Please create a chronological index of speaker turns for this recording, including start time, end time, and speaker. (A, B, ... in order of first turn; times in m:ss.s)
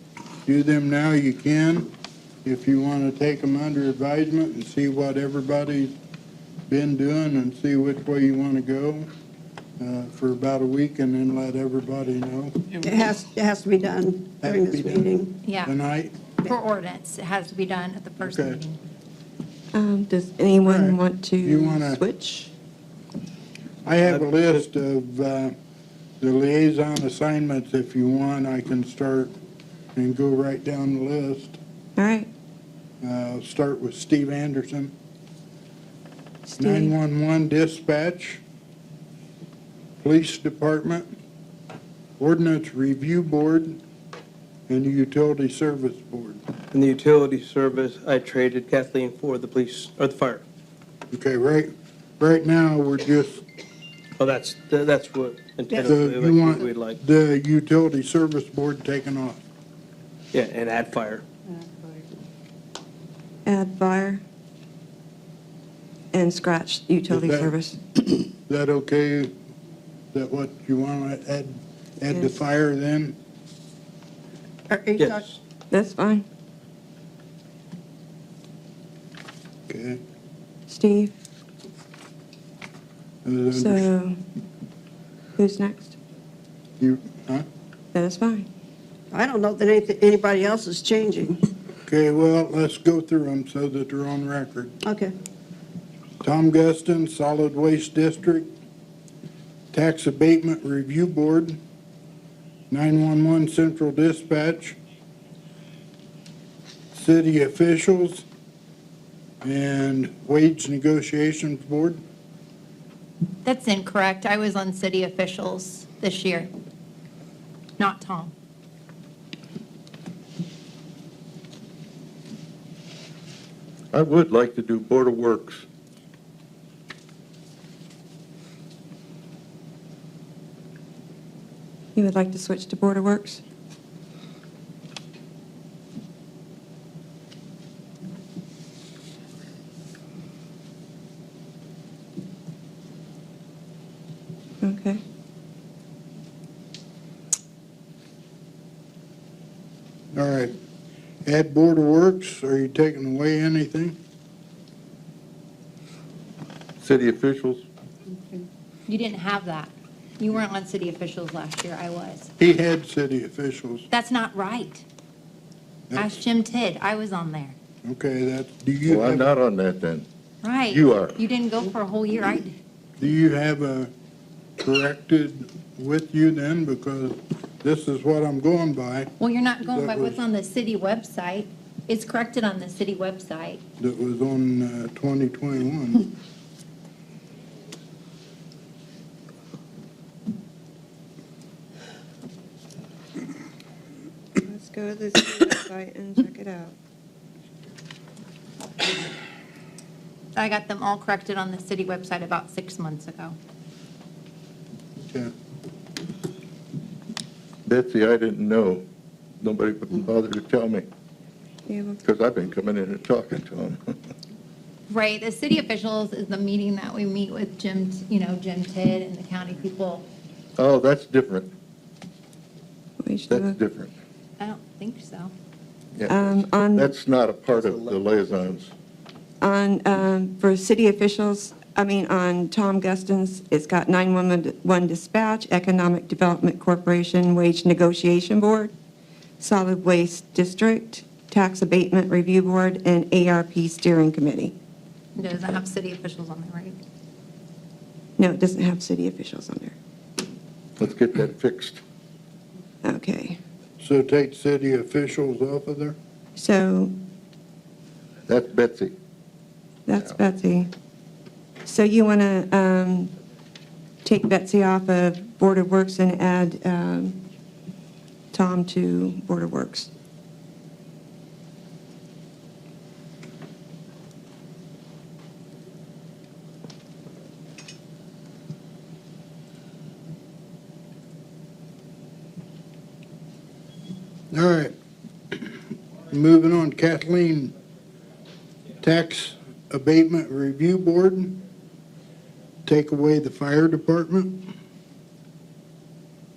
0:00.5-0:01.9 A
0:02.4-0:05.9 A
0:06.7-0:09.1 A
0:09.8-0:12.8 A
0:12.8-0:15.4 B
0:14.4-0:15.1 A
0:15.4-0:15.7 C
0:15.6-0:16.1 A
0:16.4-0:18.8 C
0:18.2-0:18.6 A
0:19.7-0:22.5 D
0:20.6-0:22.0 A
0:23.8-0:25.5 A
0:24.0-0:24.6 E
0:26.2-0:29.4 A
0:30.0-0:31.6 A
0:32.0-0:32.3 D
0:33.0-0:34.9 A
0:36.5-0:36.9 D
0:36.6-0:38.4 A
0:40.0-0:41.1 A
0:42.2-0:43.8 A
0:44.7-0:46.4 A
0:46.7-0:50.4 E
0:51.1-0:53.4 A
0:54.2-0:57.0 E
0:55.8-0:59.4 A
1:00.3-1:01.3 E
1:01.5-1:02.0 B
1:03.5-1:04.2 D
1:06.1-1:07.8 D
1:07.1-1:07.5 A
1:08.4-1:09.3 A
1:10.1-1:13.2 A
1:14.7-1:15.2 B
1:15.0-1:15.4 E
1:15.7-1:16.3 D
1:19.7-1:20.0 A
1:20.7-1:21.1 D
1:23.2-1:23.9 A
1:23.5-1:24.2 D
1:25.4-1:26.0 D
1:26.8-1:27.5 A
1:27.9-1:28.5 D
1:29.1-1:31.4 B
1:31.9-1:34.8 A
1:34.8-1:35.2 B
1:36.2-1:38.5 A
1:39.7-1:41.6 A
1:42.7-1:44.8 A
1:46.9-1:48.2 A
1:49.4-1:52.0 A
1:53.4-1:56.5 C
1:57.8-1:58.3 C
2:03.9-2:05.6 F
2:12.0-2:13.4 D
2:24.6-2:25.0 D
2:30.1-2:30.6 A
2:31.2-2:34.0 A
2:36.8-2:37.6 F
2:38.9-2:42.3 C
2:42.4-2:43.9 A
2:43.9-2:44.8 C
2:46.0-2:47.6 C
2:47.8-2:49.3 A
2:48.8-2:50.1 F
2:50.4-2:52.5 C
2:50.7-2:51.2 F
2:53.0-2:53.9 A
2:54.6-2:59.1 A
2:59.2-3:03.6 C
2:59.7-3:00.2 A
3:03.8-3:06.1 A
3:14.4-3:16.8 D
3:20.4-3:23.4 C
3:27.7-3:28.9 F
3:29.4-3:30.9 F
3:31.7-3:32.0 D
3:32.0-3:34.0 F
3:34.9-3:40.1 C
3:40.6-3:41.5 F
3:43.0-3:43.6 D
3:43.3-3:43.9 F
3:44.4-3:45.3 C
3:46.0-3:48.7 F
3:46.1-3:46.9 D
3:47.5-3:48.5 E
3:49.4-3:58.7 D
3:59.4-4:04.6 D
4:05.2-4:06.8 C
4:08.2-4:09.8 D
4:10.8-4:11.8 F
4:12.8-4:13.4 D
4:13.8-4:16.0 A
4:16.4-4:16.9 D
4:18.3-4:18.9 F
4:19.9-4:20.7 D
4:21.6-4:23.1 D
4:24.0-4:27.2 D
4:28.3-4:29.9 D
4:44.3-4:44.7 A
4:46.1-4:47.5 A
4:48.8-4:51.4 A
4:52.6-4:54.5 A